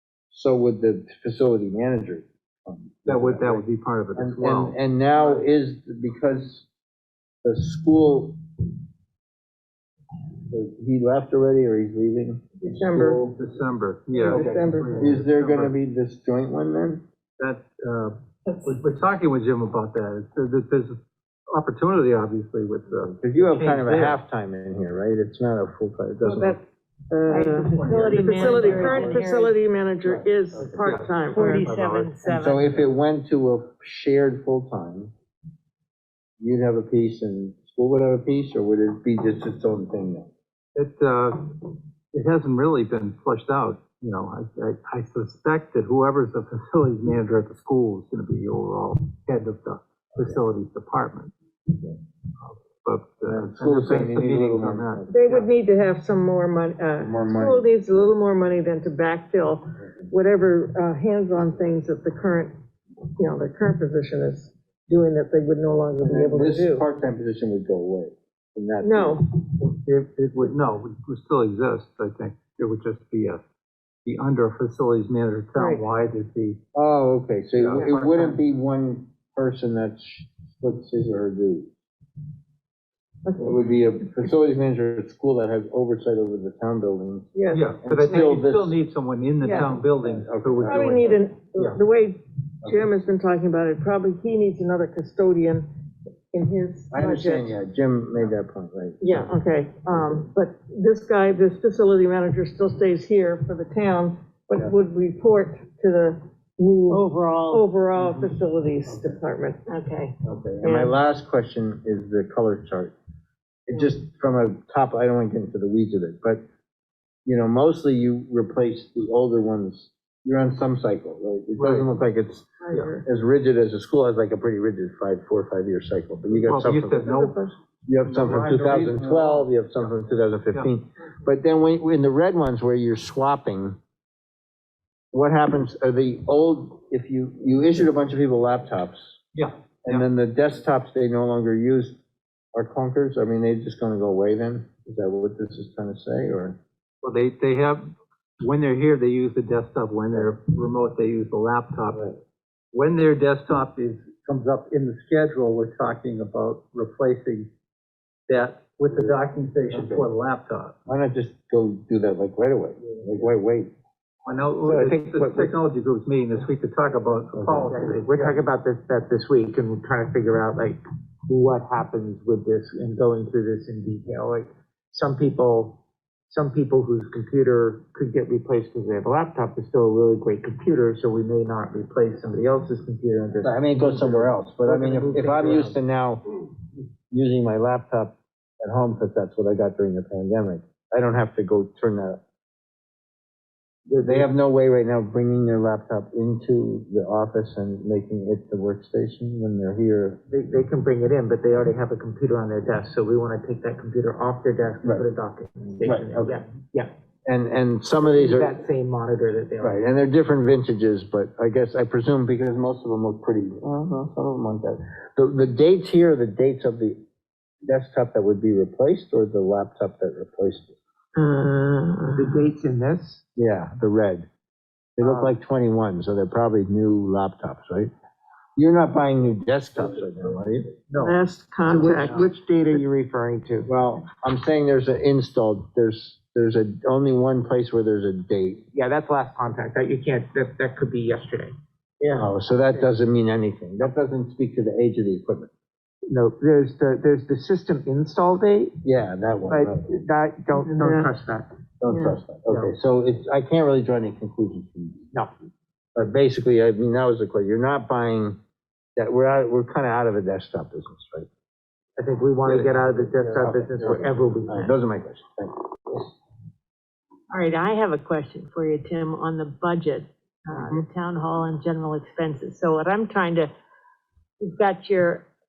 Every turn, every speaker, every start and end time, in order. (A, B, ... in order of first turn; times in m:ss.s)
0:00.3-0:06.7 A
0:03.0-0:05.4 B
0:07.4-0:08.4 A
0:10.5-0:13.2 A
0:12.6-0:13.2 C
0:13.0-0:15.7 B
0:14.2-0:15.1 C
0:15.0-0:17.0 A
0:17.4-0:24.2 B
0:23.0-0:26.6 A
0:26.2-0:31.7 C
0:27.3-0:29.6 D
0:27.7-0:29.2 B
0:30.0-0:30.8 A
0:30.8-0:32.1 B
0:31.3-0:32.7 D
0:32.2-0:35.1 A
0:36.4-0:40.3 A
0:40.7-0:51.3 B
0:52.4-0:55.5 B
0:53.2-0:55.2 A
0:55.1-1:02.5 C
0:57.0-0:57.6 A
1:03.1-1:06.8 C
1:06.0-1:09.2 A
1:08.8-1:09.2 C
1:09.6-1:13.4 B
1:14.0-1:16.6 B
1:15.6-1:15.8 C
1:16.7-1:21.7 A
1:17.6-1:18.3 B
1:23.2-1:23.6 C
1:23.4-1:27.3 A
1:27.3-1:28.2 C
1:27.5-1:31.8 B
1:27.8-1:28.8 A
1:29.4-1:29.7 C
1:29.6-1:31.2 A
1:30.6-1:35.7 C
1:36.3-1:37.5 C
1:36.9-1:39.2 A
1:39.0-1:49.6 C
1:46.9-1:47.6 D
1:49.7-1:50.2 D
1:50.2-1:52.9 A
1:50.6-1:50.9 C
1:53.7-1:56.4 A
1:57.2-2:07.1 A
2:01.6-2:01.9 B
2:02.6-2:03.0 C
2:06.4-2:09.9 B
2:07.0-2:07.5 C
2:07.8-2:13.8 A
2:15.1-2:19.2 A
2:19.3-2:20.0 B
2:19.8-2:22.0 A
2:22.5-2:26.6 A
2:27.0-2:32.2 B
2:32.7-2:37.5 B
2:38.3-2:40.8 B
2:38.9-2:39.2 A
2:39.7-2:40.1 A
2:40.9-2:43.7 A
2:44.2-2:48.4 B
2:44.8-2:45.5 E
2:47.3-2:47.8 A
2:47.7-3:05.8 E
3:03.4-3:06.2 A
3:07.1-3:12.2 A
3:13.9-3:14.3 E
3:14.0-3:20.2 A
3:20.3-3:26.9 E
3:24.8-3:25.1 A
3:25.8-3:26.4 A
3:27.2-3:28.6 A
3:28.0-3:29.8 E
3:29.6-3:37.0 A
3:37.6-3:40.8 A
3:41.2-3:42.4 C
3:42.1-3:43.2 E
3:43.4-3:44.3 A
3:45.0-3:47.9 A
3:48.6-3:50.7 A
3:51.0-3:52.3 C
3:51.6-3:53.7 E
3:53.7-3:58.6 A
3:58.7-4:02.8 E
4:02.1-4:05.5 A
4:06.1-4:08.7 E
4:08.8-4:09.8 A
4:09.5-4:11.5 E
4:10.6-4:11.1 C
4:11.8-4:15.1 A
4:11.9-4:12.2 C
4:12.4-4:12.7 E
4:16.0-4:18.4 A
4:19.0-4:21.3 A
4:22.0-4:24.7 E
4:22.4-4:22.7 B
4:22.8-4:26.1 A
4:27.3-4:33.5 D
4:34.4-4:35.2 D